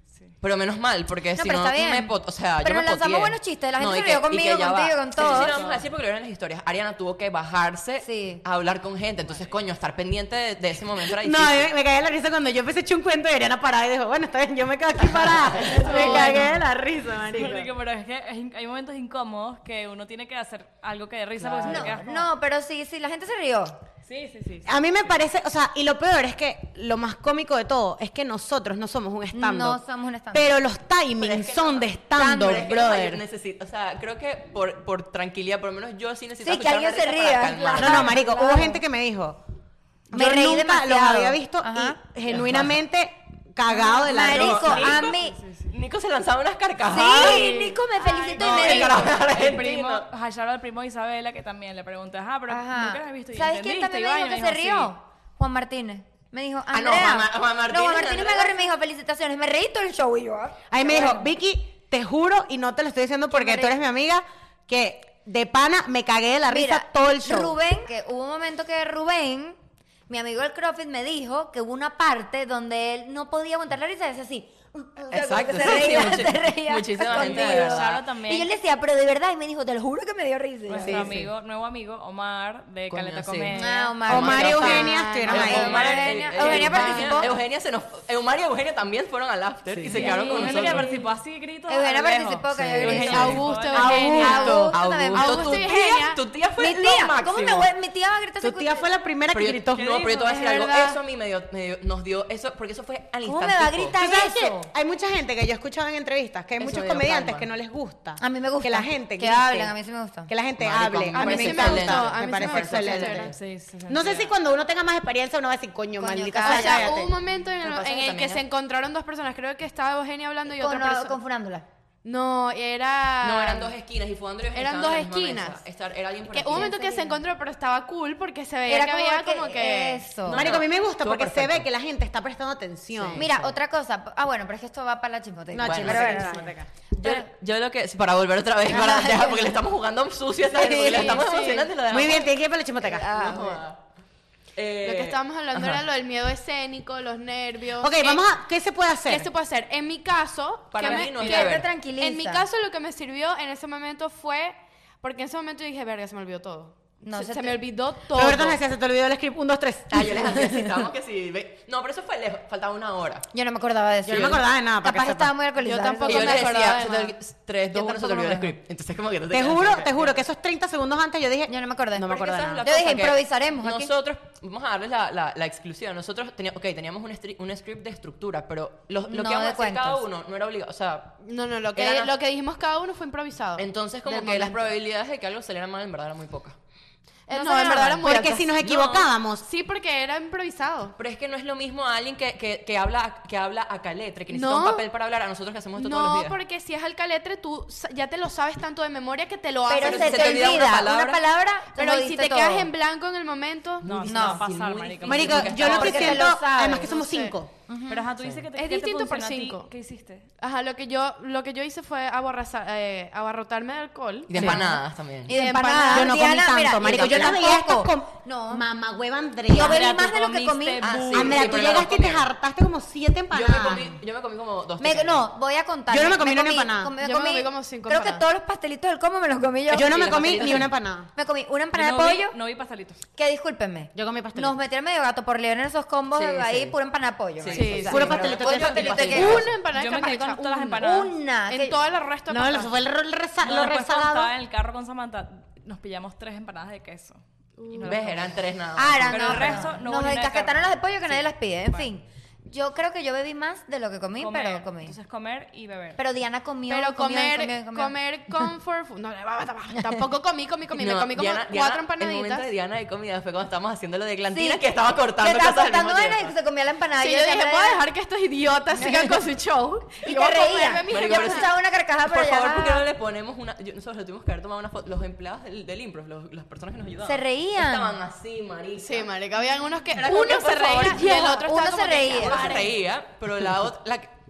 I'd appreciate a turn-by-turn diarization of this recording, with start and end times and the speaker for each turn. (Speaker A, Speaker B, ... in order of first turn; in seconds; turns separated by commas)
Speaker A: 0.4-11.7, Speaker B: 1.3-5.6, Speaker C: 5.2-5.9, Speaker B: 8.0-8.4, Speaker D: 11.2-17.7, Speaker C: 15.7-16.6, Speaker A: 15.7-16.0, Speaker B: 15.7-16.6, Speaker C: 17.3-22.3, Speaker A: 21.4-22.0, Speaker B: 21.6-23.8, Speaker C: 24.1-24.8, Speaker D: 24.6-29.8, Speaker B: 29.3-30.5, Speaker D: 30.3-33.2, Speaker A: 31.2-38.2, Speaker B: 32.2-32.7, Speaker B: 36.4-38.8, Speaker D: 37.8-39.4, Speaker D: 40.1-45.0, Speaker B: 40.1-42.0, Speaker A: 42.3-42.8, Speaker B: 43.8-45.4, Speaker A: 44.1-45.2, Speaker C: 44.7-45.7, Speaker A: 45.7-47.5, Speaker B: 46.9-49.2, Speaker E: 47.1-47.8, Speaker A: 48.3-50.1, Speaker E: 48.4-48.9, Speaker C: 48.4-54.9, Speaker B: 52.5-61.3, Speaker A: 56.7-58.6, Speaker D: 60.7-67.5, Speaker B: 63.3-63.8, Speaker B: 66.5-69.6, Speaker B: 70.1-81.2, Speaker A: 75.1-78.0, Speaker C: 77.1-78.5, Speaker C: 80.7-84.2, Speaker A: 80.8-81.2, Speaker A: 82.9-90.9, Speaker B: 83.5-87.4, Speaker D: 84.1-85.9, Speaker C: 85.9-87.3, Speaker D: 89.7-90.2, Speaker C: 89.9-94.6, Speaker B: 90.0-91.0, Speaker B: 91.7-95.8, Speaker A: 92.5-93.5, Speaker E: 92.8-96.2, Speaker D: 93.7-94.7, Speaker A: 94.7-97.7, Speaker B: 96.6-98.8, Speaker D: 98.4-100.8, Speaker A: 99.3-104.0, Speaker B: 103.2-104.7, Speaker D: 104.0-109.7, Speaker A: 106.6-107.5, Speaker B: 108.2-110.3, Speaker D: 110.3-113.3, Speaker A: 110.6-113.4, Speaker E: 111.1-113.3, Speaker C: 113.3-114.3, Speaker D: 113.9-117.1, Speaker B: 116.0-117.0, Speaker E: 116.4-121.2, Speaker A: 117.6-118.4, Speaker B: 120.5-121.7, Speaker E: 122.0-123.8, Speaker A: 123.2-126.7, Speaker E: 124.5-125.6, Speaker E: 126.3-130.1, Speaker B: 126.5-127.2, Speaker B: 128.7-130.5, Speaker A: 130.2-131.7, Speaker D: 130.3-133.3, Speaker A: 133.0-133.6, Speaker B: 133.2-136.5, Speaker D: 135.5-136.7, Speaker A: 135.6-136.4, Speaker A: 136.9-142.4, Speaker B: 138.7-139.6, Speaker B: 140.5-141.5, Speaker E: 140.7-141.7, Speaker D: 141.9-143.4, Speaker A: 142.9-143.8, Speaker B: 143.0-143.6, Speaker A: 144.6-145.8, Speaker E: 144.8-148.3, Speaker D: 147.8-149.3, Speaker E: 149.1-158.6, Speaker A: 150.7-151.7, Speaker C: 150.8-151.5, Speaker B: 150.9-152.5, Speaker B: 157.0-157.6, Speaker D: 158.1-160.7, Speaker A: 159.9-163.3, Speaker B: 163.3-166.5, Speaker D: 164.1-165.3, Speaker A: 164.1-164.4, Speaker E: 165.6-167.2, Speaker A: 166.1-170.2, Speaker B: 167.7-168.5, Speaker D: 169.3-172.7, Speaker B: 171.5-173.9, Speaker A: 172.1-181.2, Speaker B: 179.1-180.0, Speaker E: 181.2-184.7, Speaker B: 181.8-182.1, Speaker A: 183.6-186.6, Speaker E: 187.3-188.7, Speaker B: 187.3-188.1, Speaker D: 187.4-189.4, Speaker A: 188.6-189.1, Speaker E: 189.4-191.0, Speaker A: 191.0-196.4, Speaker E: 194.3-194.9, Speaker E: 195.8-200.8, Speaker B: 199.7-202.7, Speaker A: 199.8-201.2, Speaker E: 201.7-203.9, Speaker A: 203.8-206.3, Speaker C: 203.8-205.9, Speaker B: 204.1-204.4, Speaker D: 205.1-207.5, Speaker B: 205.6-206.9, Speaker E: 206.8-207.4, Speaker B: 207.7-208.1, Speaker C: 207.9-210.3, Speaker A: 208.2-208.5, Speaker E: 208.6-209.7, Speaker E: 210.4-214.6, Speaker A: 214.3-215.3, Speaker B: 214.4-218.7, Speaker E: 215.3-216.2, Speaker D: 215.4-220.0, Speaker B: 219.5-221.8, Speaker C: 219.5-221.5, Speaker A: 220.8-222.3, Speaker D: 221.1-224.0, Speaker A: 223.3-225.3, Speaker B: 224.8-232.3, Speaker D: 225.9-226.9, Speaker E: 227.0-228.2, Speaker D: 229.7-231.1, Speaker A: 229.8-230.7, Speaker C: 231.7-233.0, Speaker B: 233.2-239.5, Speaker D: 233.9-234.6, Speaker A: 236.2-236.7, Speaker A: 237.4-239.5, Speaker E: 237.5-238.4, Speaker D: 237.9-239.4, Speaker E: 239.0-240.4, Speaker C: 239.7-241.1, Speaker B: 240.0-241.8, Speaker E: 241.5-242.8, Speaker D: 242.3-244.3, Speaker C: 243.4-248.4, Speaker E: 247.6-248.0, Speaker A: 247.8-249.8, Speaker B: 248.8-254.9, Speaker C: 249.1-251.9, Speaker C: 254.2-256.0, Speaker B: 256.0-258.5, Speaker E: 256.7-262.5, Speaker A: 260.7-266.3, Speaker B: 264.3-267.8, Speaker E: 267.0-271.5, Speaker B: 268.8-269.1, Speaker B: 270.0-272.9, Speaker A: 270.9-271.5, Speaker A: 272.0-279.1, Speaker B: 277.0-278.0, Speaker E: 278.8-282.7, Speaker A: 279.8-281.3, Speaker B: 280.7-282.7, Speaker A: 282.1-284.1